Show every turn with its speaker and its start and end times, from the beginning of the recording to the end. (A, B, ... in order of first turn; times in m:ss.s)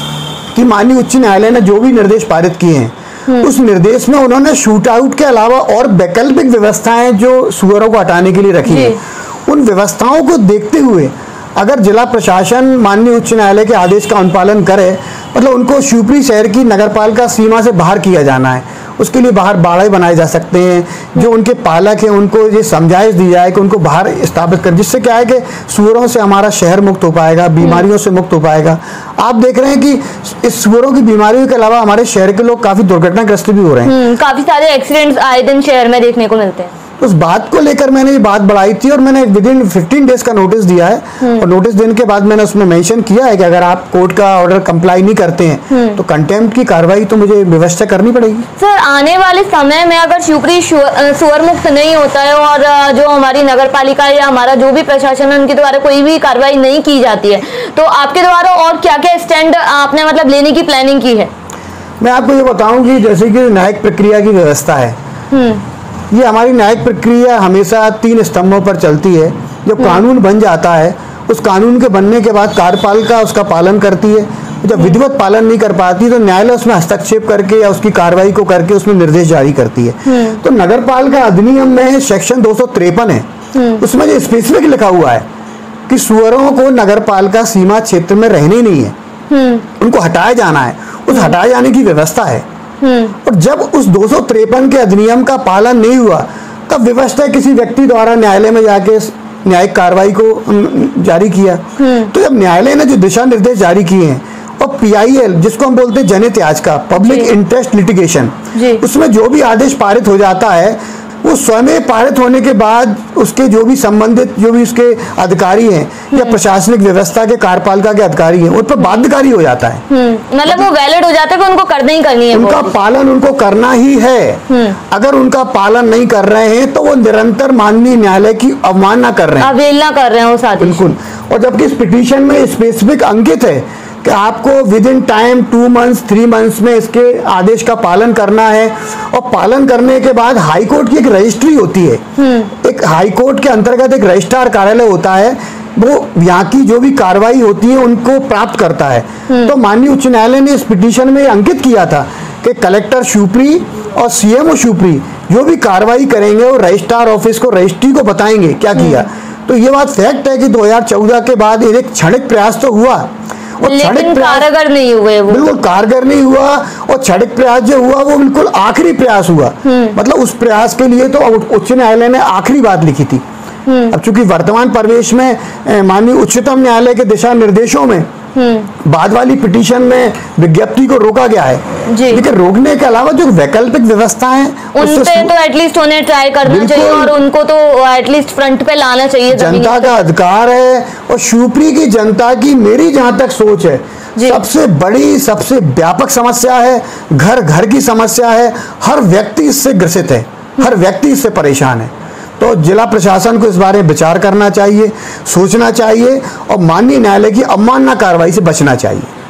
0:00.5-0:33.9 A
0:08.6-0:09.0 B
0:27.6-0:27.8 B
0:33.8-0:36.7 B
0:37.0-0:48.4 A
0:41.2-0:41.5 B
0:45.7-0:46.0 B
0:48.6-1:01.3 B
1:02.0-1:05.0 A
1:05.3-1:05.6 B
1:06.1-1:23.3 A
1:09.8-1:10.0 B
1:20.1-1:20.4 B
1:23.5-1:23.8 B
1:23.8-1:25.2 A
1:25.9-1:28.9 A
1:29.3-1:29.6 B
1:29.8-1:32.4 A
1:32.8-1:33.2 B
1:33.2-1:59.8 A
1:41.8-1:42.1 B
1:47.0-1:47.3 B
1:48.5-1:48.8 B
1:56.1-1:56.4 B
1:59.9-2:02.7 B
2:02.3-2:09.5 A
2:04.5-2:04.8 B
2:09.4-2:10.9 B
2:10.6-2:22.0 A
2:22.2-2:22.5 B
2:22.6-2:43.1 A
2:29.3-2:29.5 B
2:38.7-2:39.0 B
2:43.6-2:44.5 A
2:43.6-2:45.5 B
2:45.3-2:53.2 A
2:49.6-2:50.0 B
2:53.6-2:53.9 B
2:53.9-2:58.1 A
2:58.3-2:58.7 B
2:58.8-3:05.3 A
3:01.9-3:02.2 B
3:04.7-3:10.0 B
3:06.4-3:07.2 A
3:09.3-3:29.1 A
3:14.2-3:14.4 B